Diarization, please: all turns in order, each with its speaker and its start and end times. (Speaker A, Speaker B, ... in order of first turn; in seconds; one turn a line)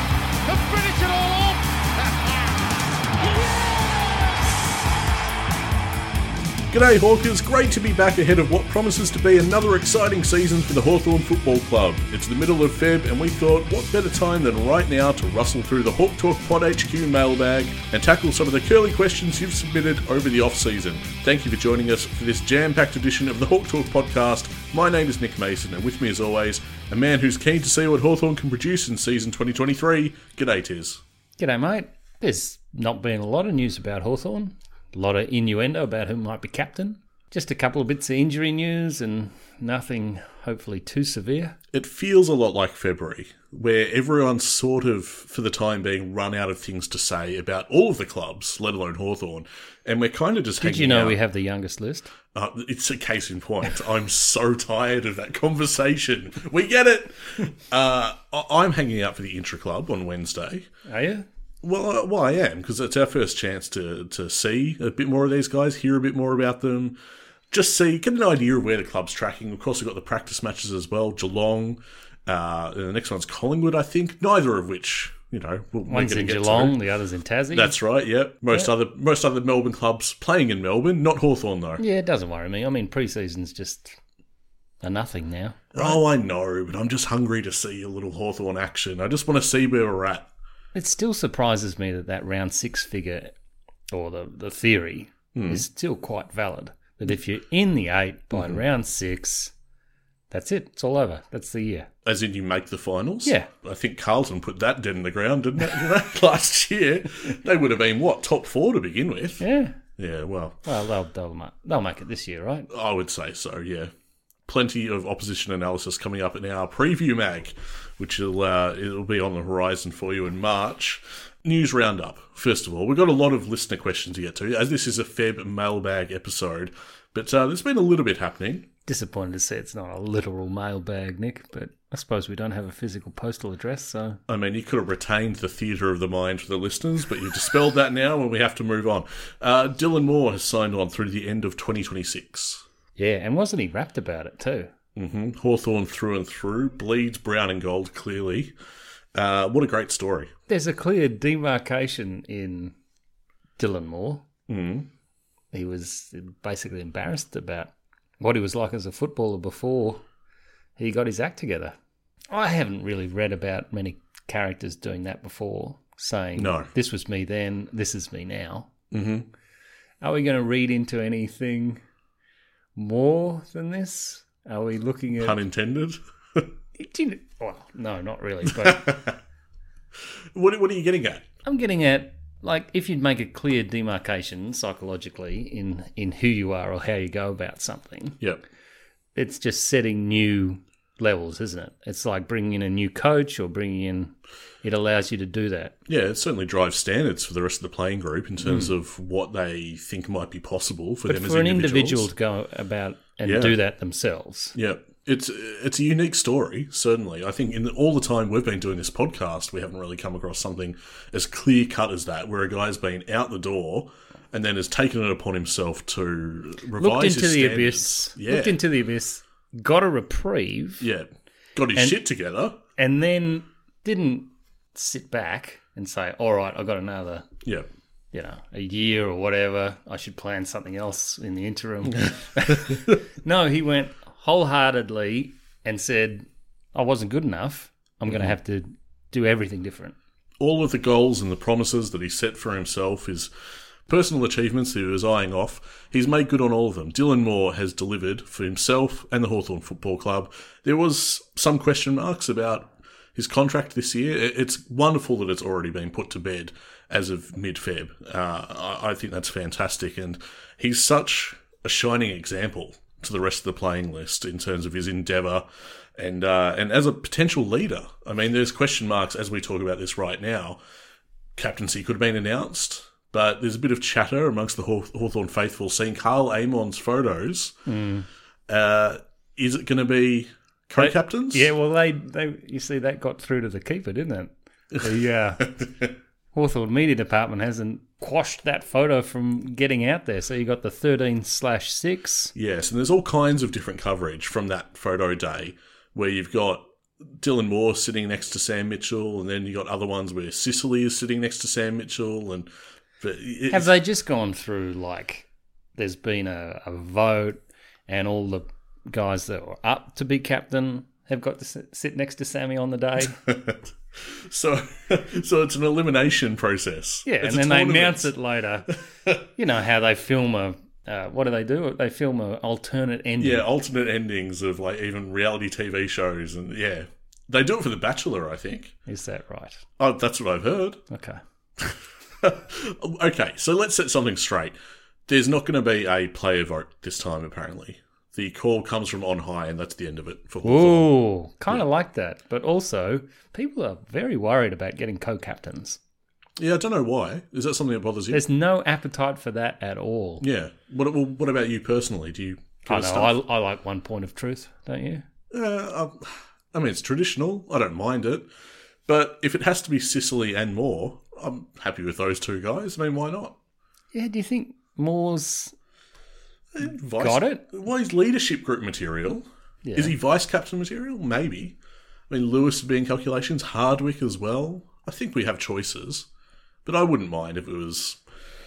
Speaker A: 0.4-4.7
Speaker B: 6.7-31.0
Speaker C: 31.4-41.6
Speaker B: 41.7-51.2
Speaker C: 50.6-52.1
Speaker B: 52.3-60.7
Speaker C: 60.9-61.3
Speaker B: 61.6-67.0
Speaker B: 67.5-76.8
Speaker C: 75.9-77.8
Speaker B: 77.5-81.8
Speaker C: 81.8-84.0
Speaker C: 84.8-86.0
Speaker B: 85.7-90.3
Speaker C: 90.7-93.3
Speaker C: 93.9-99.5
Speaker B: 95.3-95.6
Speaker B: 98.3-98.6
Speaker C: 100.3-101.9
Speaker B: 102.0-109.4
Speaker C: 103.2-103.5
Speaker C: 109.4-109.8
Speaker B: 110.0-110.7
Speaker C: 110.7-112.7
Speaker B: 112.7-113.9
Speaker B: 114.5-128.7
Speaker C: 128.9-134.2
Speaker B: 134.3-142.6
Speaker C: 143.0-144.7
Speaker B: 145.0-148.5
Speaker B: 149.2-150.3
Speaker C: 150.5-152.8
Speaker C: 153.6-154.3
Speaker B: 154.5-154.9
Speaker C: 155.5-160.0
Speaker C: 160.8-161.8
Speaker C: 162.3-168.7
Speaker B: 166.4-166.7
Speaker B: 168.9-169.3
Speaker C: 170.0-171.8
Speaker C: 172.8-175.4
Speaker B: 175.2-176.5
Speaker C: 176.8-179.0
Speaker B: 178.5-179.2
Speaker B: 180.3-181.3
Speaker C: 181.4-188.2
Speaker C: 189.2-195.8
Speaker B: 195.9-202.1
Speaker C: 198.4-198.7
Speaker C: 201.1-204.6
Speaker B: 203.2-203.6
Speaker B: 204.6-218.6
Speaker C: 216.8-220.9
Speaker B: 220.8-222.6
Speaker C: 222.8-227.3
Speaker C: 228.1-240.0
Speaker B: 232.5-232.8
Speaker B: 240.4-243.3
Speaker B: 243.9-265.4
Speaker B: 266.0-270.6
Speaker B: 271.4-277.6
Speaker C: 277.7-278.1
Speaker B: 278.5-281.5
Speaker C: 280.8-285.7
Speaker C: 286.3-292.3
Speaker B: 292.4-303.7
Speaker C: 303.5-313.2
Speaker B: 313.1-318.1
Speaker C: 317.1-318.8
Speaker C: 319.4-323.5
Speaker B: 323.2-328.7
Speaker C: 328.9-329.6
Speaker B: 329.8-330.8
Speaker C: 330.9-331.2
Speaker B: 331.6-334.5
Speaker B: 335.1-340.9
Speaker C: 340.4-345.8
Speaker B: 346.4-348.2
Speaker C: 348.1-350.2
Speaker B: 350.2-353.2
Speaker C: 352.7-355.1
Speaker B: 355.3-358.3
Speaker B: 358.9-363.4
Speaker C: 363.9-365.5
Speaker B: 366.5-371.6
Speaker C: 366.9-367.4
Speaker C: 369.6-369.9
Speaker B: 372.1-376.1
Speaker B: 376.6-378.0